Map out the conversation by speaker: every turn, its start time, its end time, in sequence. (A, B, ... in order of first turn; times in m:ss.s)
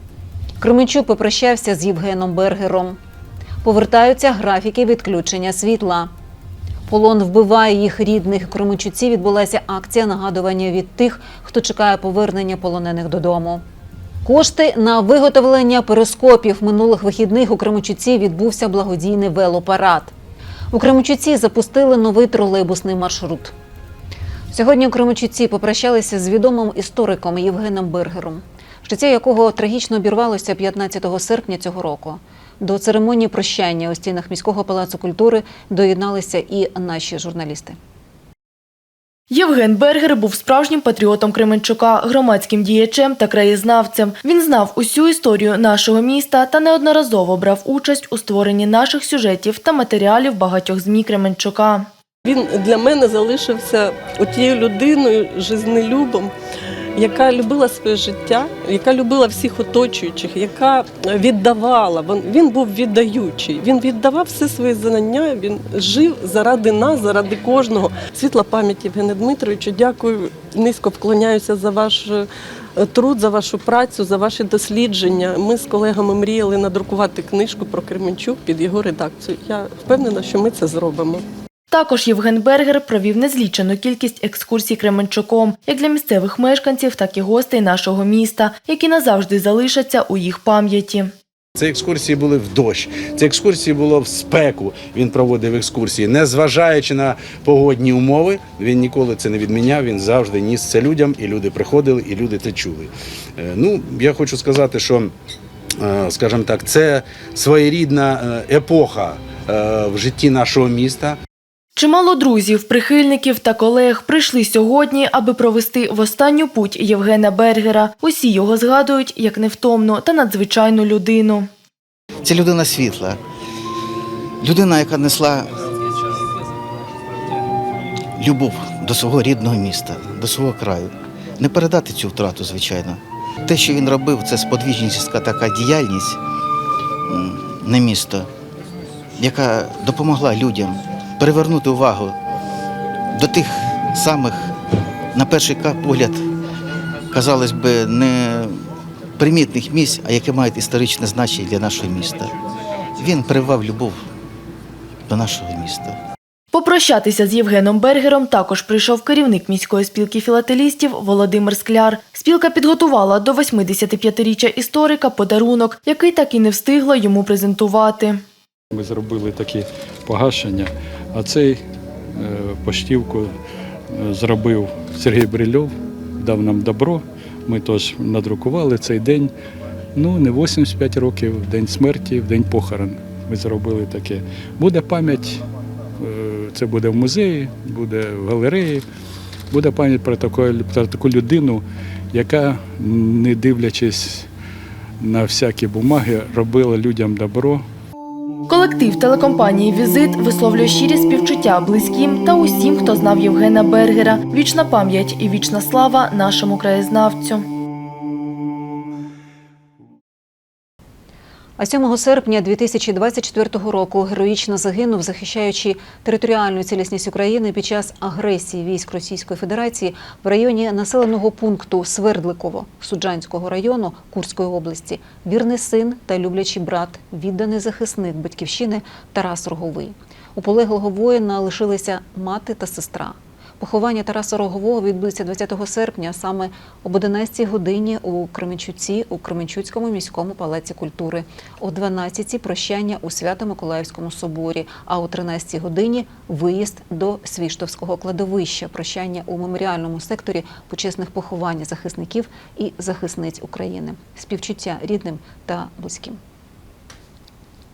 0:00.6-0:03.0 A
0:03.6-0:06.1 A
0:06.9-0:13.6 A
0:14.2-0:20.1 A
0:20.7-0:23.5 A
0:24.5-0:37.8 A
0:39.3-0:51.9 B
0:52.2-0:56.3 C
0:57.0-1:12.3 C
1:12.8-1:21.2 C
1:21.7-1:31.1 B
1:31.6-1:45.1 D
1:45.8-1:51.2 D
1:51.8-2:01.5 B
2:02.3-2:03.1 E
2:04.4-2:05.5 E
2:08.2-2:10.9 E
2:11.4-2:13.0 E
2:13.5-2:16.2 E
2:17.1-2:18.2 E
2:19.2-2:22.1 E
2:23.2-2:24.4 E
2:25.2-2:26.2 E
2:27.1-2:28.5 E
2:29.2-2:32.3 E
2:33.0-2:34.0 E
2:35.1-2:35.9 E
2:36.5-2:48.2 B
2:48.7-2:53.3 F
2:53.9-2:59.3 F
3:00.0-3:05.4 F
3:06.0-3:08.8 F
3:09.5-3:14.3 F
3:15.0-3:17.7 F
3:18.5-3:27.4 B
3:31.6-4:16.2 A